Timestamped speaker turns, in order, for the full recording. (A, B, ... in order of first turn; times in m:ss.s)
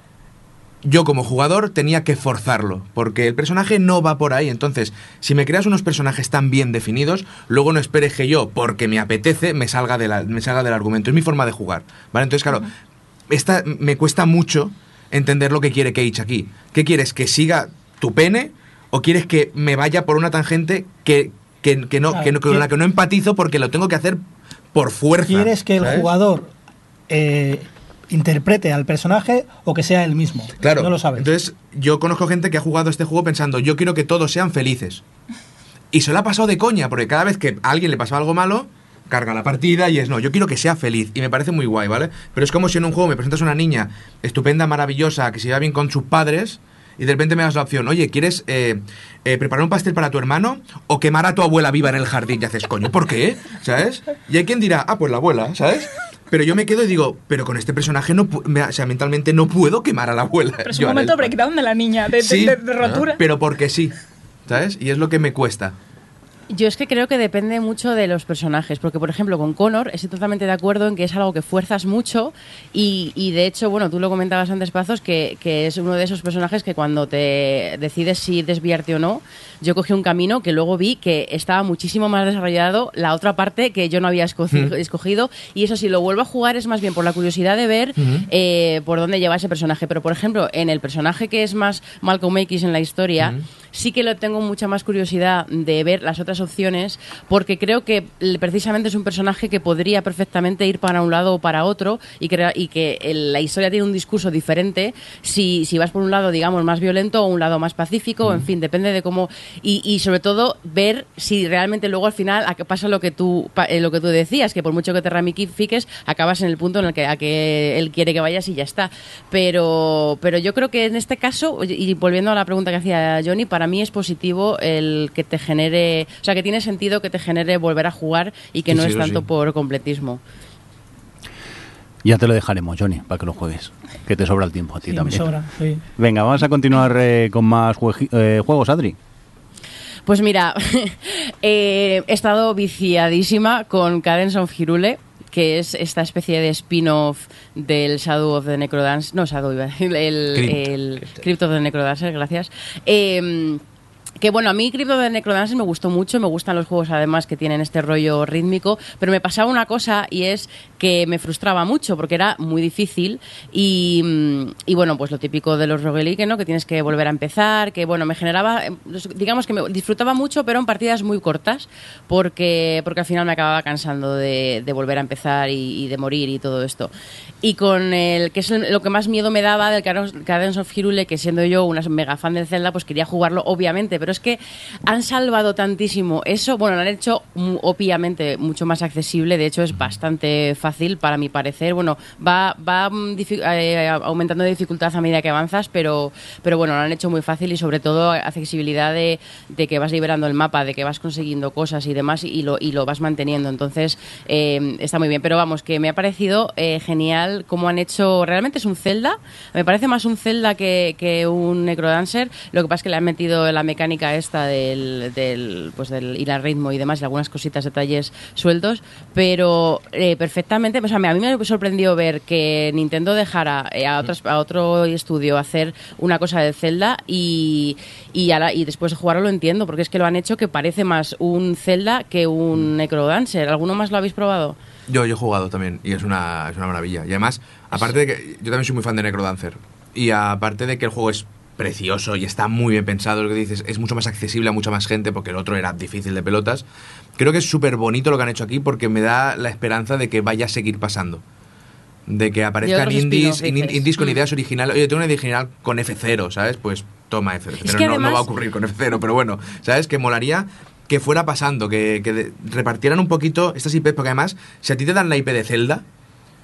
0:00.8-0:12.7 A
0:13.3-0:24.2 A
0:22.1-0:22.7 B
0:24.7-0:26.1 A
0:25.2-0:26.5 B
0:27.1-0:31.3 B
0:30.6-0:35.0 A
0:35.9-1:01.3 A
1:00.6-1:03.2 C
1:02.2-1:04.0 A
1:04.5-1:05.8 A
1:06.5-2:10.2 D
1:28.0-1:28.3 A
2:08.7-2:09.2 A
2:12.0-2:15.3 E
2:14.9-2:15.8 B
2:16.0-2:19.0 E
2:20.1-2:33.6 D
2:30.3-2:30.6 A
2:34.2-2:56.9 D
2:57.4-3:54.6 D
3:54.9-4:06.6 A
4:07.2-4:11.2 A
4:12.1-4:25.8 A
4:12.6-4:14.2 D
4:17.6-4:18.3 D